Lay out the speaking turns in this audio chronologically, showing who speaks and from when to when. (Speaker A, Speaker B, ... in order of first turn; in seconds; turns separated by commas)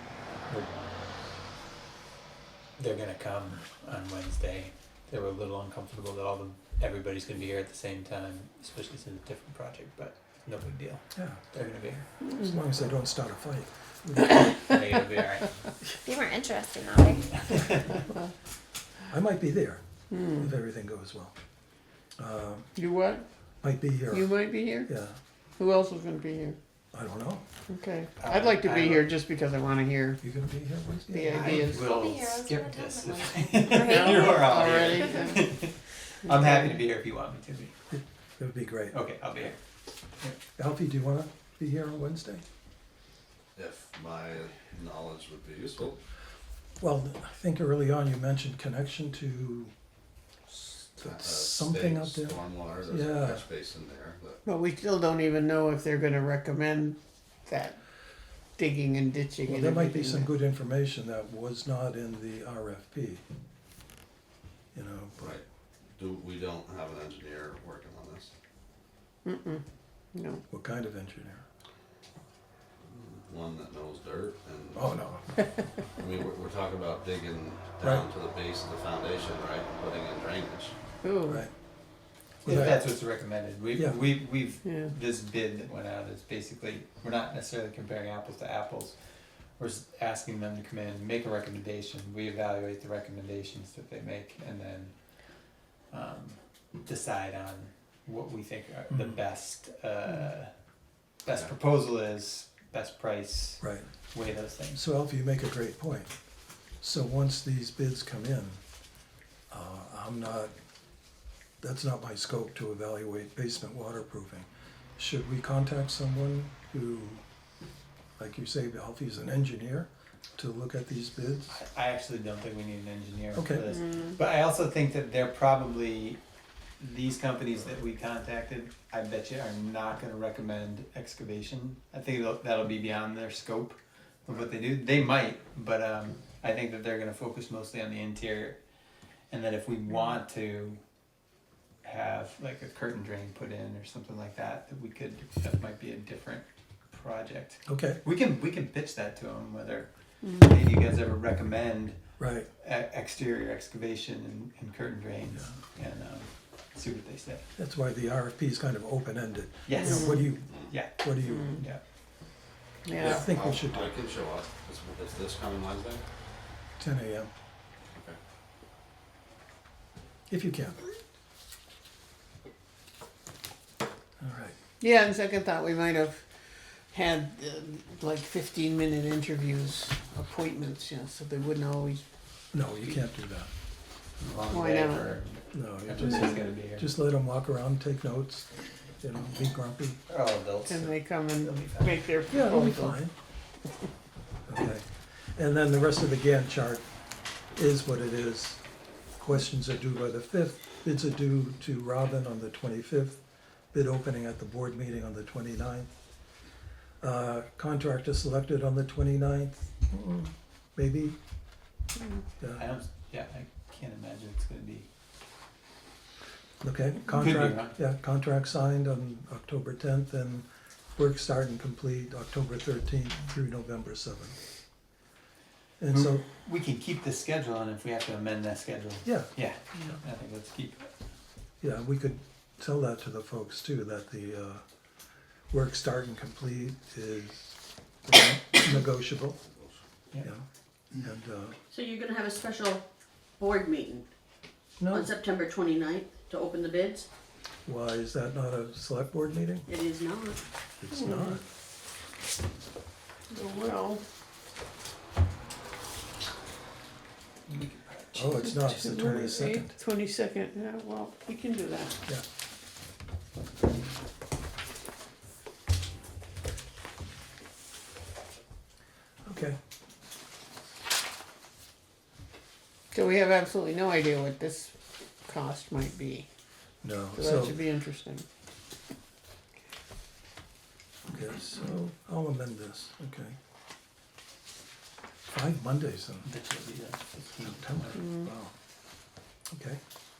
Speaker A: 0.5-0.8, Speaker A: 2.8-12.1, Speaker B: 11.2-11.4, Speaker B: 12.4-14.6, Speaker A: 14.6-15.5, Speaker C: 16.1-17.4, Speaker A: 17.4-18.0, Speaker B: 19.1-19.8, Speaker D: 20.1-20.6, Speaker B: 20.3-21.3, Speaker B: 22.2-22.7, Speaker D: 22.8-23.2, Speaker B: 23.6-25.2, Speaker D: 24.1-24.9, Speaker D: 25.6-26.6, Speaker B: 26.9-27.4, Speaker D: 27.7-30.2, Speaker A: 28.2-29.1, Speaker B: 30.2-31.7, Speaker D: 31.1-31.8, Speaker C: 31.3-35.4, Speaker A: 31.3-37.7, Speaker D: 33.9-35.4, Speaker D: 36.3-36.8, Speaker B: 37.9-39.0, Speaker A: 38.9-39.6, Speaker B: 40.2-42.4, Speaker E: 43.6-46.0, Speaker B: 46.8-49.7, Speaker E: 50.6-54.4, Speaker B: 51.0-53.5, Speaker D: 54.5-57.8, Speaker D: 58.6-60.3, Speaker B: 59.5-63.2, Speaker B: 64.7-65.4, Speaker E: 65.2-65.4, Speaker E: 66.0-68.3, Speaker D: 69.2-69.6, Speaker D: 70.1-70.4, Speaker B: 70.5-71.4, Speaker E: 72.9-74.9, Speaker B: 74.7-75.2, Speaker E: 76.0-80.7, Speaker D: 81.0-81.5, Speaker A: 82.4-89.0, Speaker B: 82.5-82.9, Speaker D: 84.6-84.9, Speaker A: 89.6-95.0, Speaker A: 95.9-100.5, Speaker A: 101.2-104.8, Speaker B: 103.6-103.9, Speaker B: 104.7-106.1, Speaker B: 106.8-108.6, Speaker B: 109.5-110.5, Speaker B: 111.6-117.2, Speaker B: 118.2-121.6, Speaker A: 121.5-126.2, Speaker B: 123.3-123.7, Speaker D: 123.8-124.2, Speaker A: 126.8-138.6, Speaker A: 139.3-140.8, Speaker A: 141.8-152.0, Speaker B: 147.7-148.0, Speaker D: 150.2-150.5, Speaker B: 152.2-152.5, Speaker A: 152.6-157.4, Speaker B: 157.6-161.6, Speaker A: 159.7-161.8, Speaker D: 159.9-160.2, Speaker E: 160.5-160.7, Speaker D: 162.8-163.2, Speaker E: 162.9-166.0, Speaker B: 163.0-163.9, Speaker B: 166.8-167.3, Speaker B: 170.3-170.8, Speaker B: 174.2-174.6, Speaker D: 174.8-176.2, Speaker D: 176.9-182.0, Speaker B: 182.5-183.5, Speaker A: 184.2-186.9, Speaker D: 184.5-185.2, Speaker B: 185.5-188.5, Speaker B: 189.0-190.0, Speaker A: 190.1-192.0, Speaker D: 190.7-193.0, Speaker B: 192.3-193.1, Speaker B: 194.5-196.9, Speaker B: 197.6-198.6, Speaker B: 199.2-203.2, Speaker B: 203.7-205.9, Speaker B: 207.0-211.2, Speaker A: 212.5-214.9, Speaker B: 216.6-224.3, Speaker A: 217.1-217.8, Speaker B: 225.8-226.2, Speaker A: 225.9-230.9, Speaker B: 231.6-234.6, Speaker B: 235.5-239.5, Speaker B: 241.0-241.6, Speaker F: 241.7-242.8, Speaker F: 243.4-244.1, Speaker B: 244.8-245.1, Speaker F: 244.9-247.1, Speaker B: 247.7-249.7, Speaker F: 249.7-250.4, Speaker B: 250.8-251.4, Speaker D: 251.0-251.4, Speaker D: 253.3-254.0, Speaker A: 257.5-259.3, Speaker B: 258.1-259.8, Speaker D: 258.8-262.0, Speaker B: 269.3-269.6, Speaker D: 272.9-274.7, Speaker D: 275.3-276.3, Speaker B: 276.8-277.6, Speaker D: 277.1-278.2, Speaker B: 281.1-283.4, Speaker B: 285.3-286.3, Speaker A: 286.2-288.1, Speaker B: 287.4-288.5, Speaker D: 288.0-288.3, Speaker B: 289.5-289.8